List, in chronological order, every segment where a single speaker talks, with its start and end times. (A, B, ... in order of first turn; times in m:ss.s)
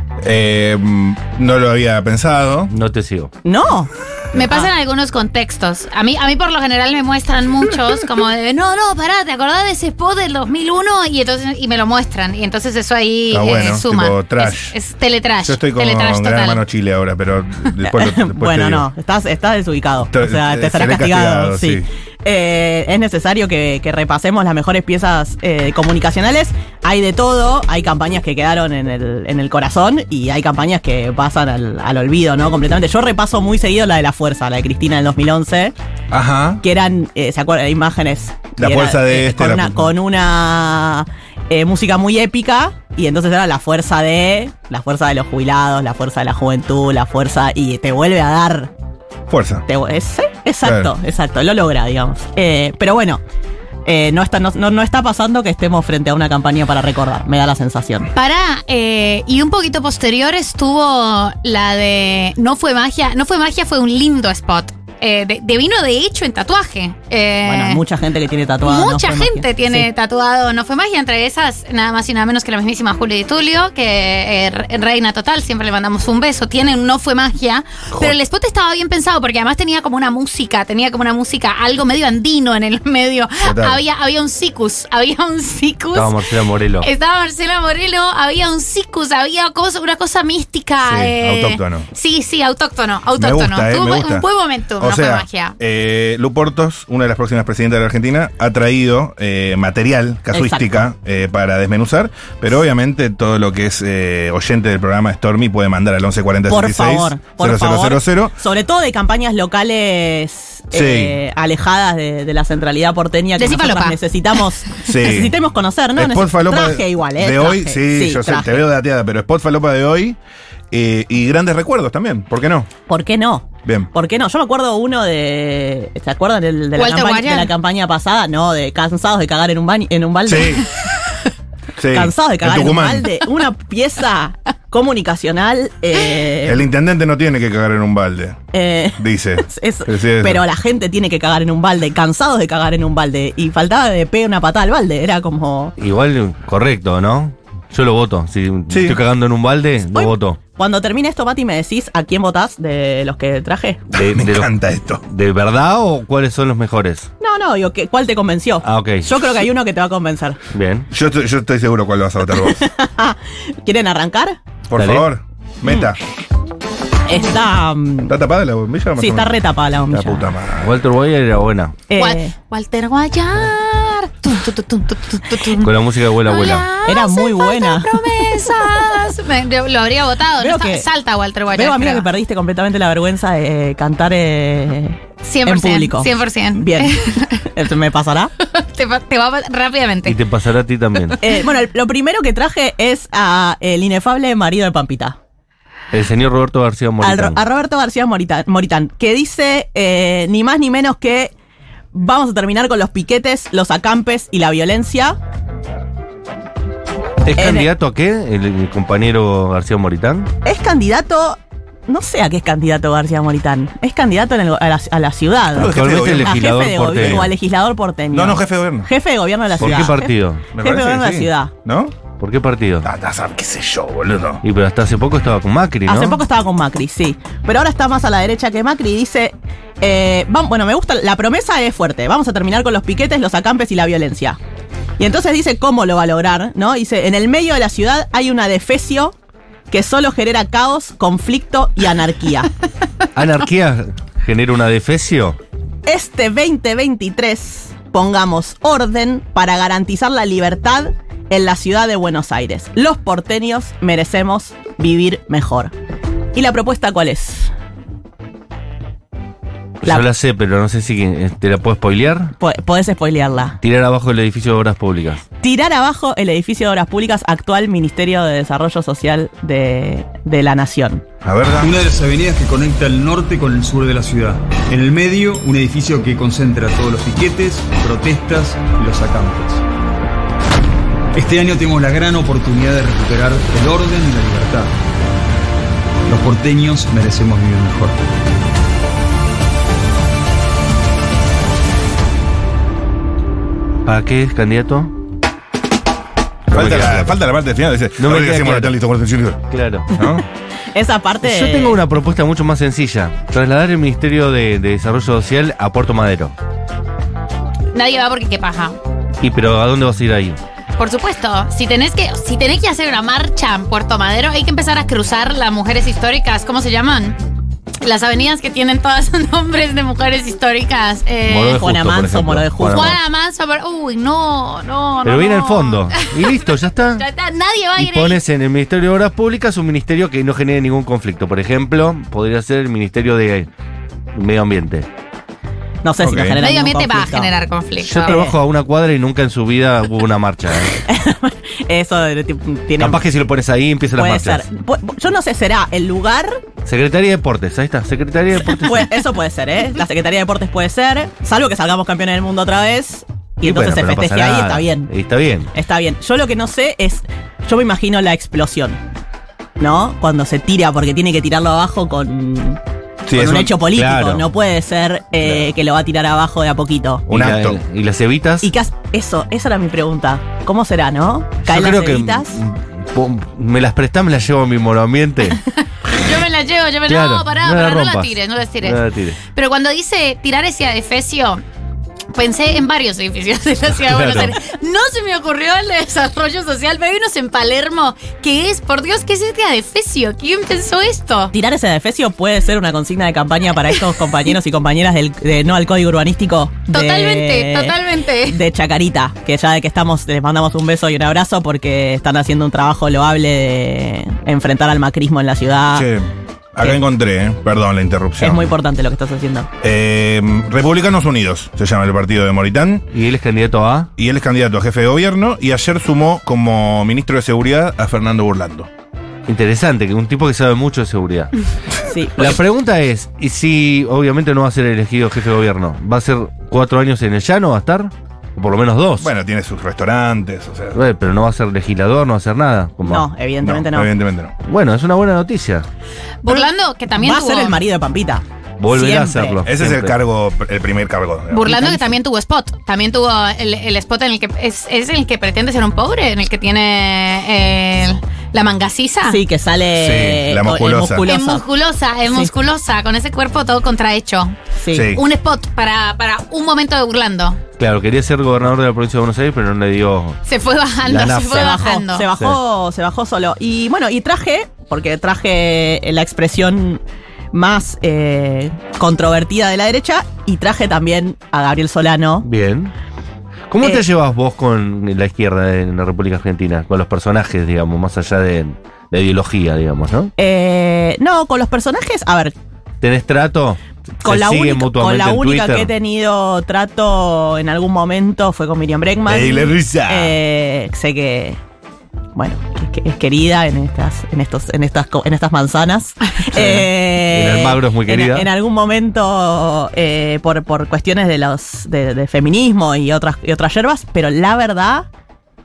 0:00.2-0:02.7 A
0:02.7-0:03.3 B
0:03.4-0:04.7 C
0:04.3-0:16.6 D
0:13.3-0:14.8 A
0:15.4-0:18.9 A
0:17.9-0:35.7 C
0:20.1-0:21.9 A
0:36.1-0:36.6 A
0:36.6-0:48.7 C
0:38.6-0:39.9 A
0:49.3-0:49.6 A
0:49.7-0:53.2 C
0:50.6-0:50.9 A
0:53.8-0:58.1 C
0:58.1-1:07.8 D
1:07.4-1:09.9 C
1:08.6-1:26.1 D
1:23.4-1:23.8 A
1:25.9-1:26.9 B
1:26.8-1:35.6 D
1:30.8-1:31.9 A
1:33.2-1:34.2 A
1:34.8-1:48.4 A
1:40.3-1:40.8 C
1:46.5-1:58.6 C
1:50.7-1:51.2 A
1:53.4-1:54.0 D
1:54.8-1:55.4 A
1:56.0-2:00.2 A
2:00.7-2:02.7 A
2:02.9-2:10.7 C
2:06.8-2:07.5 D
2:10.3-2:10.7 A
2:11.8-2:13.1 A
2:11.9-2:16.7 C
2:16.4-2:18.4 A
2:18.5-2:25.7 C
2:19.0-2:20.4 A
2:25.8-2:30.4 B
2:28.7-2:29.0 A
2:29.9-2:33.8 C
2:33.9-2:35.0 A
2:34.0-2:34.5 B
2:35.1-2:37.1 B
2:37.2-2:40.4 C
2:38.6-2:39.4 B
2:40.5-2:40.9 B
2:40.9-2:42.6 A
2:42.5-2:44.4 C
2:44.7-2:46.0 A
2:44.8-2:45.1 B
2:47.1-2:48.1 C
2:48.1-2:49.4 A
2:49.0-2:50.3 C
2:49.9-2:51.8 B
2:50.2-2:50.7 A
2:51.9-2:52.3 C
2:52.0-2:55.7 D
2:55.6-2:56.7 B
2:56.2-3:02.1 D
2:56.8-2:58.8 C
3:00.4-3:00.9 C
3:01.5-3:08.3 C
3:05.2-3:07.5 D
3:08.4-3:10.2 D
3:10.1-3:11.2 B
3:11.2-3:15.2 C
3:15.9-3:17.4 B
3:17.0-3:21.3 C
3:21.9-3:25.2 C
3:27.2-3:30.3 B
3:27.4-3:27.7 C
3:30.4-3:41.5 C
3:35.5-3:36.4 A
3:35.6-3:37.3 B
3:37.0-3:37.3 A
3:38.1-3:38.9 A
3:39.6-3:39.9 A
3:39.6-3:40.4 B
3:40.5-3:42.0 A
3:42.2-3:42.9 B
3:42.8-3:44.4 A
3:44.4-3:46.2 B
3:45.9-3:54.4 C
3:55.0-3:59.2 C
3:59.7-4:02.5 C
4:03.2-4:05.4 B
4:05.8-4:15.7 C
4:16.3-4:17.5 C
4:19.8-4:22.3 B
4:22.4-4:23.6 C
4:23.6-4:25.2 B
4:25.4-4:31.0 C
4:31.2-4:31.7 A
4:31.6-4:39.6 E
4:41.2-4:44.7 E
4:46.1-4:48.0 E
4:53.8-4:54.9 B
4:56.5-4:57.2 B
4:56.5-5:00.2 A
4:58.0-4:58.7 B
4:59.5-4:59.9 B
5:00.7-5:01.8 C
5:01.2-5:06.4 B
5:07.7-5:08.8 D
5:09.2-5:10.4 B
5:10.8-5:17.2 D
5:17.8-5:21.6 D
5:21.3-5:23.0 B
5:21.6-5:23.0 C
5:22.7-5:26.4 D
5:25.0-5:27.0 B
5:27.0-5:28.2 D
5:27.8-5:33.5 B
5:34.2-5:34.9 B
5:35.8-5:37.3 C
5:36.0-5:36.4 A
5:36.4-5:38.2 D
5:37.8-5:40.8 B
5:38.0-5:38.3 C
5:40.9-5:43.0 C
5:42.8-5:44.5 B
5:44.0-5:46.4 C
5:46.6-5:49.0 B
5:48.6-5:54.9 C
5:53.4-5:55.5 B
5:55.6-5:58.8 C
5:59.6-6:02.6 C
6:03.1-6:03.5 A
6:03.1-6:07.0 C
6:03.6-6:04.3 B
6:07.1-6:08.5 B
6:07.1-6:07.6 A
6:08.4-6:12.4 C
6:11.4-6:15.4 B
6:15.9-6:18.8 D
6:16.9-6:19.2 B
6:19.3-6:21.4 D
6:22.1-6:31.3 D
6:23.8-6:24.4 B
6:31.3-6:45.9 C
6:36.7-6:38.4 D
6:45.7-6:48.5 A
6:48.2-6:49.5 C
6:49.6-6:52.9 A
6:52.9-6:53.9 B
6:54.0-6:58.7 A
6:59.3-7:01.3 B
7:01.9-7:02.4 C
7:02.2-7:09.1 B
7:09.0-7:10.8 A
7:10.7-7:13.1 B
7:12.8-7:13.9 C
7:13.4-7:14.3 A
7:14.4-7:15.7 B
7:16.2-7:17.6 D
7:16.3-7:19.4 C
7:18.6-7:20.0 B
7:19.4-7:21.8 A
7:21.3-7:29.2 D
7:29.1-7:31.4 C
7:29.8-7:31.1 A
7:31.0-7:34.4 D
7:34.6-7:35.0 C
7:34.7-7:35.0 A
7:34.9-7:37.4 D
7:37.6-7:40.2 B
7:40.3-7:42.1 D
7:40.8-7:41.6 B
7:41.2-7:46.8 C
7:47.3-7:52.3 C
7:52.2-7:52.7 B
7:53.5-8:00.1 B
8:00.2-8:02.3 C
8:02.8-8:05.7 B
8:04.0-8:11.4 C
8:09.1-8:10.2 A
8:12.2-8:24.9 C
8:16.3-8:18.3 B